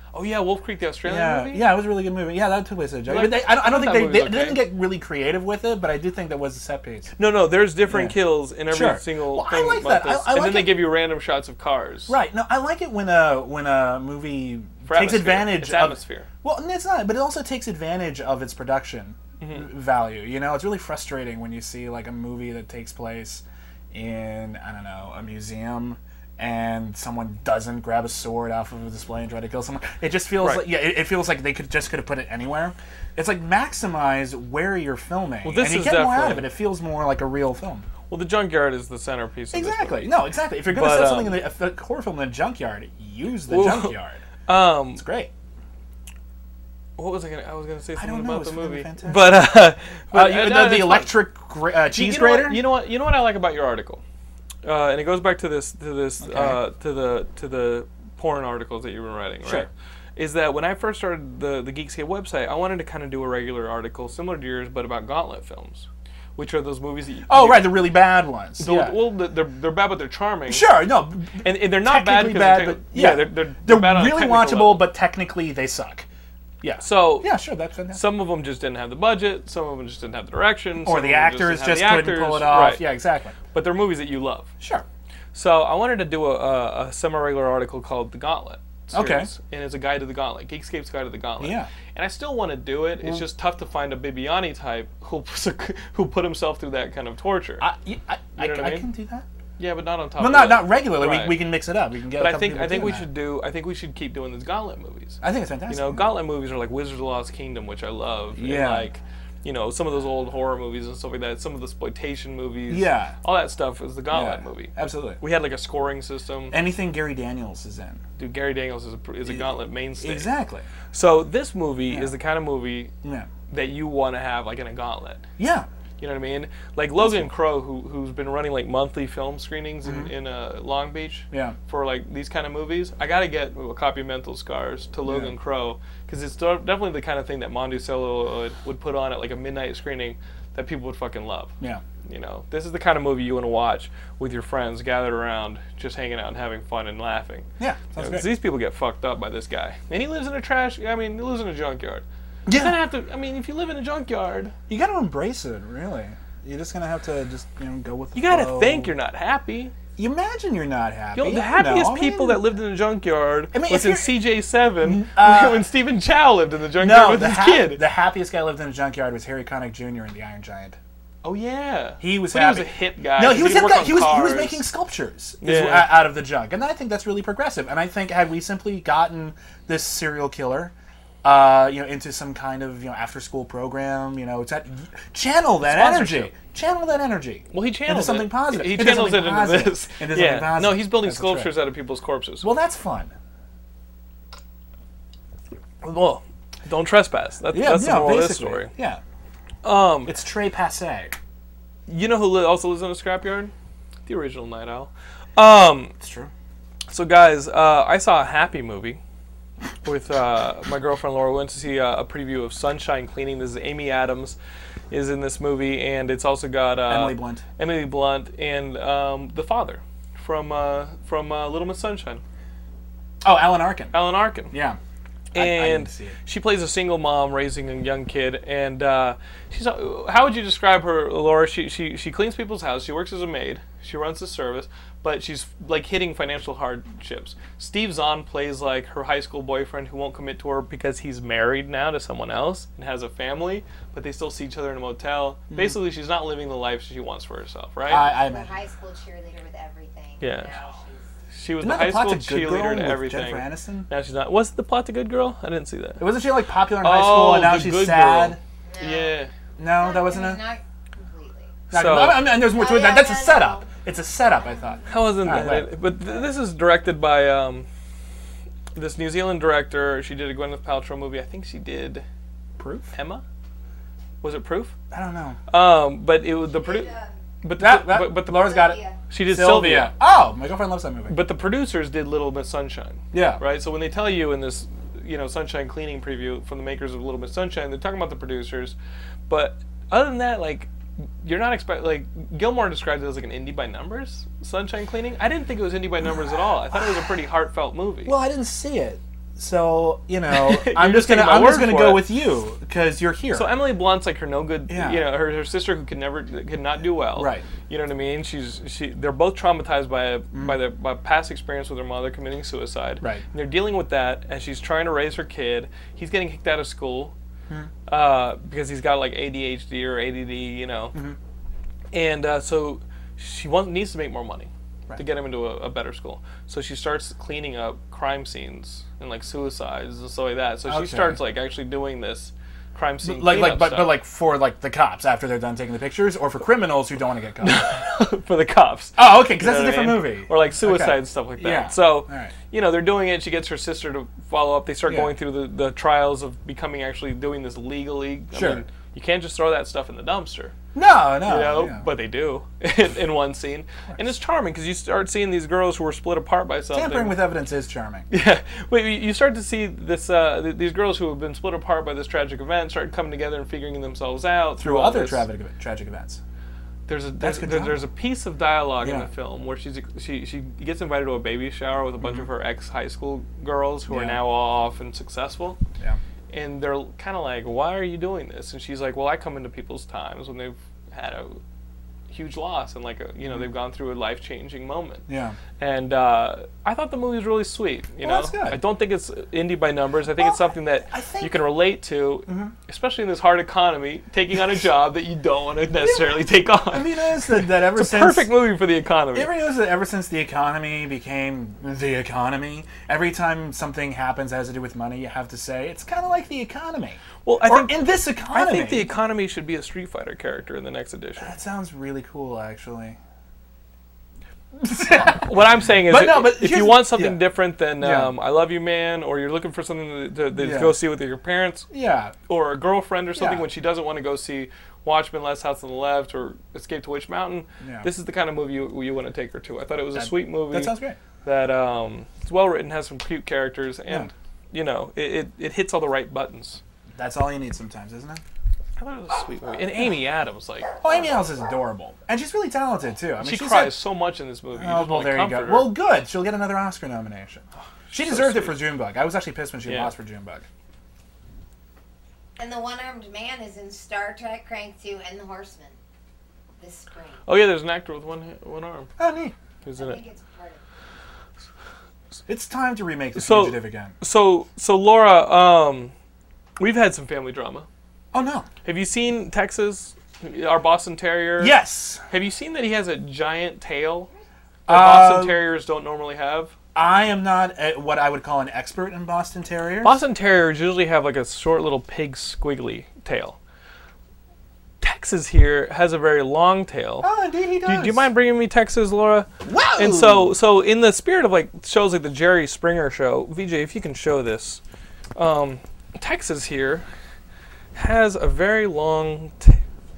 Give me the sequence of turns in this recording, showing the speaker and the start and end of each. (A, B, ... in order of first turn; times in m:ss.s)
0:00.1-0:01.7 A
0:01.0-0:07.1 B
0:03.1-0:04.6 A
0:07.2-0:12.2 A
0:07.9-0:08.2 B
0:08.7-0:10.8 B
0:12.1-0:37.9 B
0:14.8-0:16.3 A
0:19.4-0:19.7 A
0:30.4-0:30.6 A
0:35.4-0:36.5 A
0:38.1-0:40.1 A
0:39.5-0:44.2 B
0:40.7-0:41.5 A
0:43.5-0:45.0 A
0:44.9-0:45.3 B
0:47.0-0:51.1 A
0:48.0-0:49.5 B
0:50.1-0:52.6 B
0:51.9-0:54.0 A
0:54.6-1:07.8 A
0:56.2-0:56.6 B
1:07.3-1:09.0 B
1:08.6-1:10.7 A
1:10.5-1:16.1 B
1:11.4-1:14.9 A
1:16.6-1:18.0 B
1:16.8-1:17.3 A
1:17.9-1:22.9 A
1:20.8-1:23.4 B
1:23.5-1:24.5 A
1:24.6-1:24.8 B
1:25.3-1:37.6 A
1:28.9-1:29.3 B
1:31.4-1:31.7 B
1:37.6-1:39.2 B
1:38.4-1:38.9 A
1:39.6-1:41.4 A
1:40.2-1:43.1 B
1:42.2-1:56.6 A
1:45.2-1:46.0 B
1:48.4-1:48.9 B
1:52.7-1:53.1 B
1:54.1-1:55.2 B
1:56.5-1:58.0 B
1:58.2-2:00.3 A
2:00.0-2:00.7 B
2:00.9-2:02.9 A
2:03.0-2:03.3 B
2:03.5-2:05.2 A
2:05.4-2:05.7 B
2:06.0-2:21.5 A
2:07.0-2:07.3 B
2:09.8-2:10.1 B
2:11.3-2:11.6 B
2:15.0-2:15.3 B
2:22.0-2:34.5 A
2:27.6-2:28.3 B
2:32.4-2:32.8 B
2:34.7-2:38.9 B
2:38.1-2:39.7 A
2:40.0-2:42.4 B
2:41.1-2:47.8 A
2:43.5-2:44.1 B
2:44.8-2:45.7 B
2:46.8-2:50.8 B
2:51.2-2:54.6 A
2:52.0-3:11.5 B
2:55.4-2:56.0 A
3:05.6-3:06.3 A
3:07.5-3:12.5 A
3:12.4-3:13.1 B
3:15.8-3:18.7 A
3:17.5-3:19.0 B
3:19.6-3:20.1 A
3:20.0-3:21.1 B
3:21.9-3:23.5 A
3:24.0-3:25.9 A
3:26.0-3:26.3 B
3:26.9-3:29.0 A
3:29.8-3:34.4 A
3:34.9-3:42.2 A
3:36.9-3:37.4 B
3:43.2-3:44.0 B
3:43.9-3:44.5 A
3:44.5-3:44.8 B
3:45.3-3:46.2 B
3:45.3-4:08.1 A
4:05.5-4:05.8 B
4:07.9-4:08.6 B
4:07.9-4:11.1 C
4:10.2-4:10.5 A
4:11.3-4:16.0 A
4:11.6-4:13.9 B
4:16.0-4:18.4 B
4:16.8-4:19.3 A
4:18.7-4:21.6 C
4:19.6-4:20.4 B
4:21.7-4:22.4 A
4:21.7-4:25.7 B
4:22.4-4:23.7 C
4:24.4-4:24.9 C
4:24.9-4:27.7 A
4:28.7-4:32.0 A
4:32.6-4:32.9 B
4:32.9-4:33.2 A
4:34.2-4:34.7 A
4:34.9-4:35.4 B
4:35.5-4:36.9 A
4:36.5-4:37.1 C
4:37.4-4:39.9 A
4:37.6-4:41.2 B
4:38.4-4:39.0 C
4:41.1-4:48.8 A
4:43.1-4:43.4 B
4:49.3-4:50.7 A
4:51.2-4:58.2 A
4:58.0-5:03.5 B
5:00.3-5:02.1 A
5:03.3-5:17.1 A
5:04.7-5:05.0 B
5:07.2-5:07.4 B
5:10.3-5:10.6 B
5:17.9-5:21.0 A
5:21.9-5:34.0 A
5:30.6-5:31.2 B
5:33.0-5:37.6 B
5:37.4-5:50.5 A
5:39.0-5:42.3 B
5:44.8-5:45.1 B
5:48.3-5:48.6 B
5:50.7-5:51.8 B
5:51.2-5:57.2 A
5:56.7-5:58.0 B
5:58.1-6:05.2 A
6:04.6-6:06.2 B
6:06.9-6:15.6 A
6:07.2-6:07.8 B
6:08.8-6:09.1 B
6:12.0-6:12.3 B
6:13.9-6:14.2 B
6:16.3-6:21.4 A
6:22.1-6:25.0 A
6:25.1-6:25.4 B
6:25.6-6:39.3 A
6:28.0-6:28.6 B
6:30.1-6:31.4 B
6:32.2-6:32.5 B
6:35.8-6:38.3 B
6:39.1-6:48.9 B
6:47.2-6:51.3 A
6:51.2-6:53.0 B
6:54.6-6:55.3 B
6:55.1-7:01.7 A
6:55.8-6:57.2 B
6:57.8-6:58.1 B
7:00.4-7:00.8 B
7:01.7-7:02.1 B
7:02.3-7:16.6 A
7:03.2-7:03.4 B
7:07.6-7:07.9 B
7:09.9-7:11.0 B
7:17.0-7:18.2 B
7:18.8-7:20.7 A
7:20.8-7:23.8 B
7:23.2-7:25.7 A
7:24.6-7:30.4 B
7:27.9-7:28.7 A
7:29.6-7:29.9 A
7:32.4-7:35.8 C
7:36.6-7:37.2 C
7:37.2-7:38.9 A
7:39.0-7:39.3 B
7:39.6-7:40.0 A
7:39.8-7:40.6 C
7:42.3-7:43.9 B
7:43.2-7:45.9 A
7:46.6-7:47.7 A
7:48.1-7:48.5 B
7:48.6-7:51.6 A
7:51.4-7:52.0 B
7:52.1-7:54.1 A
7:54.7-7:55.4 B
7:54.7-7:56.5 A
7:56.7-8:00.0 B
7:59.8-8:03.4 A
8:04.8-8:07.1 A
8:07.0-8:08.0 B
8:07.6-8:14.6 A
8:09.4-8:10.3 B
8:15.2-8:16.8 A
8:17.7-8:19.6 A